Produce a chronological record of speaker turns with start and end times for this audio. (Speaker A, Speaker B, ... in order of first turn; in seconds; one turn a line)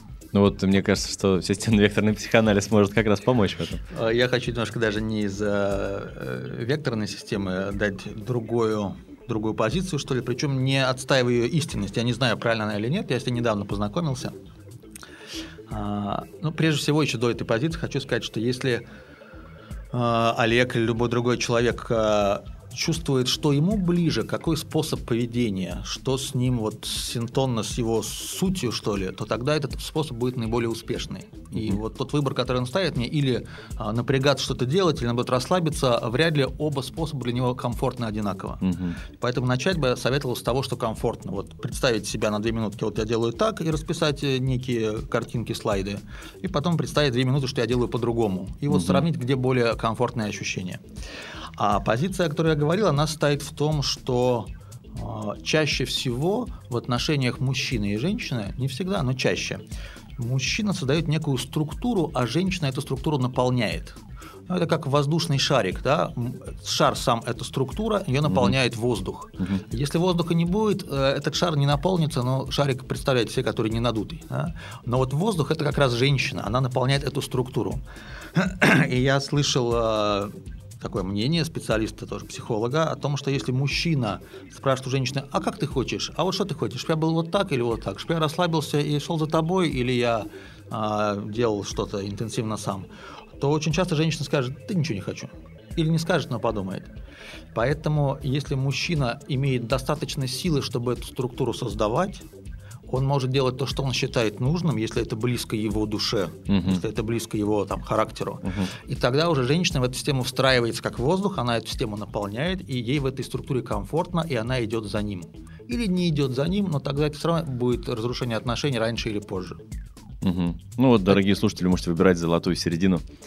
Speaker A: 0.3-3.8
Speaker B: 3.9-14.3
Speaker B: 15.7-18.8
Speaker B: 19.9-50.8
Speaker A: 31.5-31.8
Speaker A: 38.6-39.0
Speaker A: 48.7-49.1
Speaker B: 51.6-59.6
Speaker B: 60.2-64.0
Speaker B: 64.5-77.8
Speaker A: 68.2-68.5
Speaker B: 78.3-92.9
Speaker B: 93.4-96.9
Speaker B: 97.5-102.2
Speaker B: 102.9-119.6
Speaker A: 106.5-106.8
Speaker A: 120.2-123.0